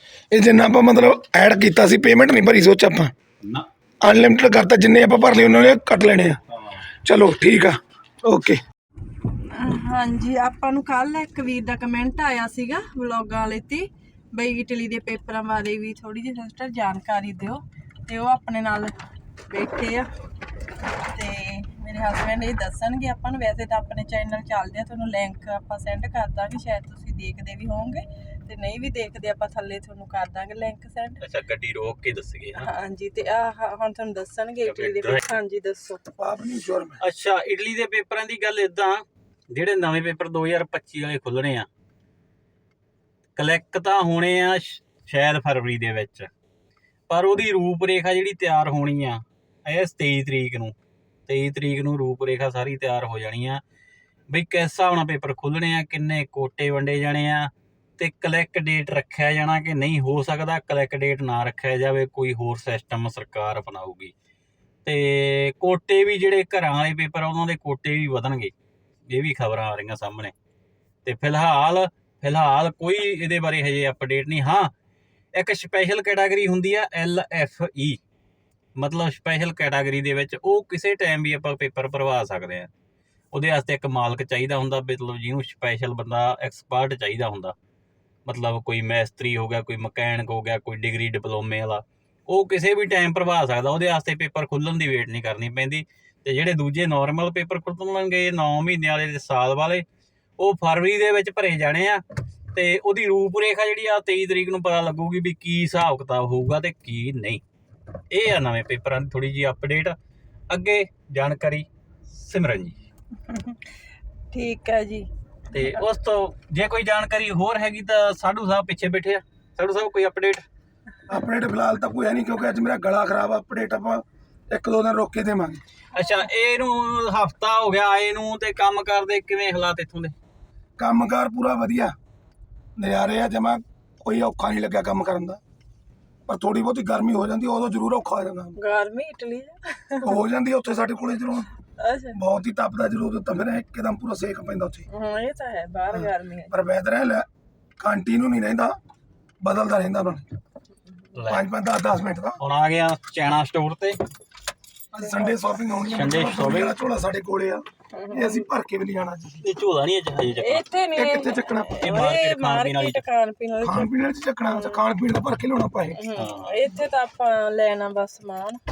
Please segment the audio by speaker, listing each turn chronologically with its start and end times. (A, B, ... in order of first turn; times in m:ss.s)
0:00.3-0:03.1 A
0:03.4-0:03.7 B
0:04.0-0:06.4 A
0:06.5-0:06.9 B
0:07.0-0:08.6 A
0:09.5-0:18.9 C
0:19.5-0:20.1 C
0:21.0-0:31.2 C
0:31.2-0:32.7 B
0:32.6-0:36.0 C
0:34.6-0:35.2 B
0:36.2-0:37.0 A
0:37.0-0:41.7 B
0:43.4-0:46.3 B
0:47.1-0:50.8 B
0:51.3-0:53.6 B
0:54.3-1:04.1 B
1:04.8-1:08.5 B
1:09.1-1:10.3 B
1:11.0-1:14.7 B
1:15.3-1:18.0 B
1:18.8-1:22.7 B
1:23.3-1:27.5 B
1:28.2-1:39.8 B
1:40.4-1:47.4 B
1:48.1-1:50.0 B
1:50.5-1:52.8 B
1:53.3-1:53.6 C
1:54.3-1:55.8 C
1:55.5-2:00.4 B
2:01.1-2:05.6 A
2:05.9-2:10.1 B
2:10.8-2:11.9 A
2:12.8-2:15.4 A
2:16.3-2:18.5 A
2:18.6-2:20.1 C
2:20.0-2:21.5 A
2:21.8-2:22.2 C
2:22.1-2:24.9 A
2:24.9-2:26.6 C
2:25.9-2:27.2 A
2:27.8-2:28.8 A
2:29.4-2:30.2 A
2:31.1-2:31.4 B
2:31.3-2:32.4 A
2:32.4-2:34.0 B
2:34.9-2:39.4 A
2:35.0-2:35.5 C
2:35.9-2:36.7 B
2:37.9-2:38.5 C
2:39.4-2:40.6 B
2:40.4-2:43.9 C
2:40.9-2:41.8 A
2:41.8-2:43.0 B
2:43.6-2:46.0 A
2:44.5-2:44.8 C
2:46.0-2:48.6 C
2:46.1-2:46.6 B